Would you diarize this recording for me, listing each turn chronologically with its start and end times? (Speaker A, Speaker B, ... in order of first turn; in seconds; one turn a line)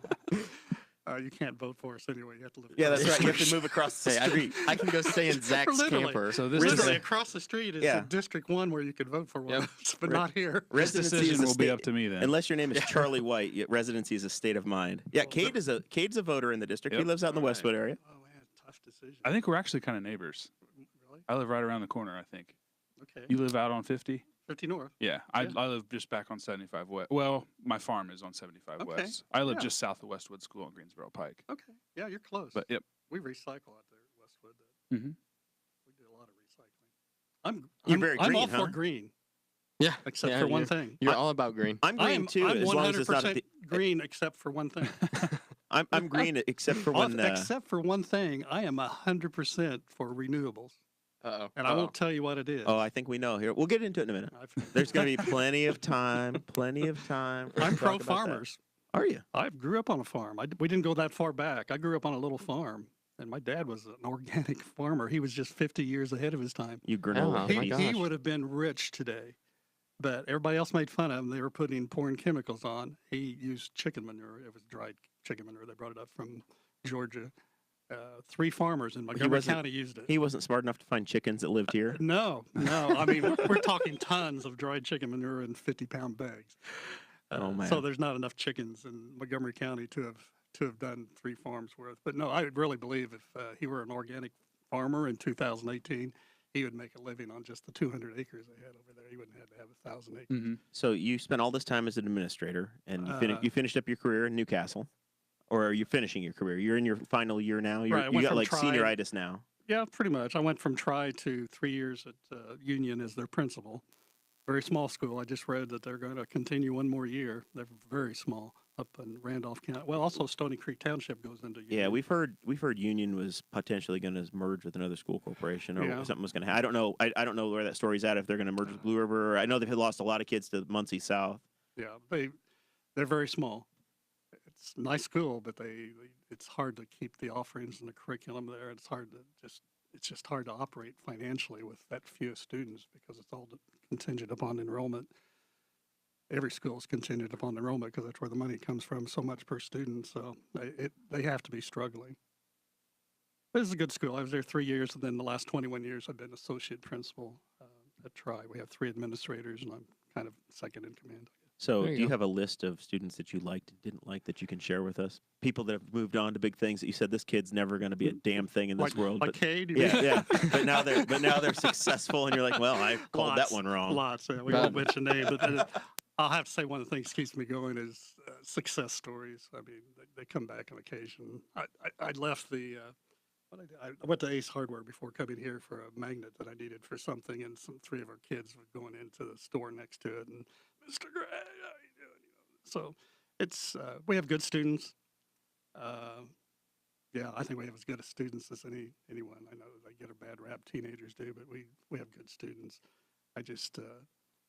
Speaker A: 1.1-3.7
Speaker B: 2.7-4.7
Speaker C: 3.0-3.4
Speaker C: 4.0-6.6
Speaker A: 4.8-10.9
Speaker D: 6.3-7.0
Speaker B: 6.6-7.0
Speaker B: 7.8-8.1
Speaker B: 10.1-18.0
Speaker D: 10.8-12.3
Speaker C: 12.7-13.1
Speaker A: 15.2-15.5
Speaker A: 18.0-19.4
Speaker D: 19.2-20.5
Speaker A: 21.0-21.2
Speaker D: 21.3-22.6
Speaker A: 23.0-23.3
Speaker D: 23.3-24.3
Speaker A: 24.5-25.6
Speaker D: 25.0-31.4
Speaker A: 28.8-29.7
Speaker A: 31.5-34.6
Speaker D: 32.6-32.9
Speaker D: 34.9-35.2
Speaker A: 35.9-36.8
Speaker A: 37.4-39.1
Speaker B: 37.9-38.8
Speaker C: 39.8-41.8
Speaker A: 40.0-41.0
Speaker B: 41.8-43.8
Speaker A: 42.0-45.1
Speaker B: 45.7-47.5
Speaker A: 46.9-50.8
Speaker C: 51.2-51.9
Speaker A: 51.6-52.8
Speaker B: 52.6-58.4
Speaker A: 54.3-55.4
Speaker A: 57.6-58.6
Speaker B: 58.9-59.2
Speaker A: 59.3-66.8
Speaker B: 66.8-67.9
Speaker C: 67.1-68.1
Speaker A: 67.4-69.4
Speaker A: 70.0-77.3
Speaker A: 77.9-80.1
Speaker B: 79.2-82.0
Speaker A: 81.9-100.3
Speaker B: 87.4-87.8
Speaker D: 100.3-100.6
Speaker B: 100.7-104.9
Speaker A: 103.0-103.5
Speaker B: 105.5-109.5
Speaker A: 107.9-109.0
Speaker A: 109.7-113.8
Speaker A: 114.5-122.0
Speaker B: 121.7-131.4
Speaker A: 125.8-126.1
Speaker A: 131.8-132.3
Speaker A: 133.0-133.7
Speaker A: 134.5-145.1
Speaker A: 146.3-152.2
Speaker A: 153.5-161.4
Speaker B: 161.6-174.8
Speaker C: 161.8-162.1
Speaker A: 168.8-171.9
Speaker A: 173.1-182.9
Speaker C: 174.5-174.9
Speaker A: 183.5-194.9
Speaker A: 195.8-196.3
Speaker A: 197.1-202.8
Speaker A: 203.4-204.1